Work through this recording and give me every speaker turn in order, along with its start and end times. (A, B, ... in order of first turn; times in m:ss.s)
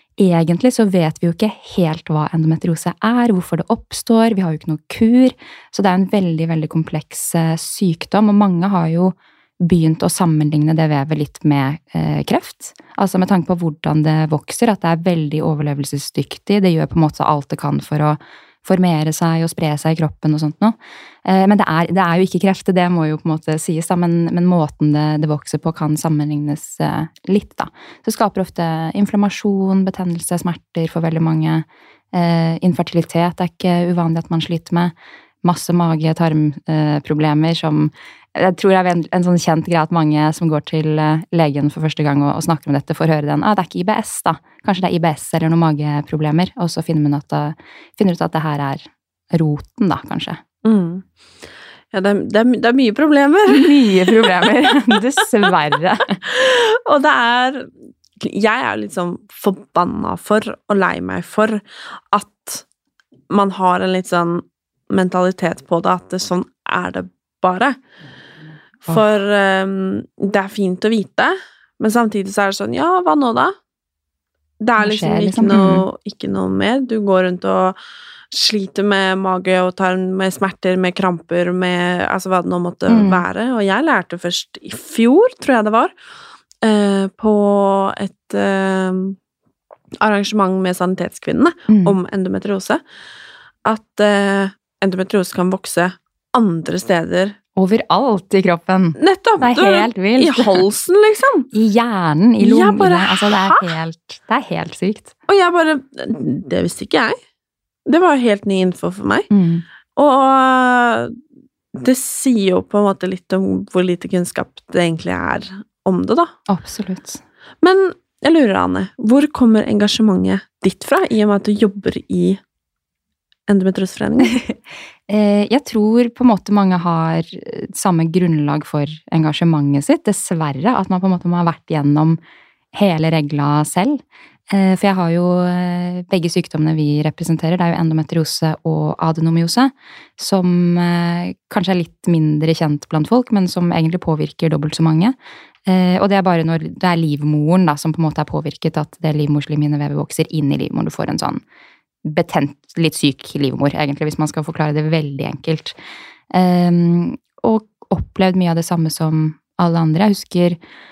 0:00.2-0:50.4 A
0:50.6-0:51.0 B
0:51.9-0:54.5 B
0:53.5-0:56.2 A
0:56.3-1:02.6 B
1:03.3-1:07.8 B
1:08.9-1:13.6 B
1:14.6-1:17.8 B
1:14.8-1:15.9 A
1:18.3-1:25.9 B
1:22.9-1:23.2 A
1:26.6-1:29.2 B
1:30.0-1:32.8 B
1:31.7-1:32.0 A
1:33.6-1:37.4 B
1:37.6-1:40.6 A
1:39.0-1:41.5 B
1:41.5-1:45.1 A
1:42.4-1:43.7 B
1:45.3-1:47.2 B
1:47.9-1:49.3 B
1:49.3-1:49.6 A
1:50.0-1:51.2 B
1:51.7-1:56.3 B
1:56.5-1:57.2 A
1:57.6-2:02.4 B
2:03.5-2:04.4 B
2:04.2-2:04.6 A
2:05.1-2:12.2 A
2:12.7-2:31.4 A
2:32.0-2:35.8 A
2:36.3-2:40.6 A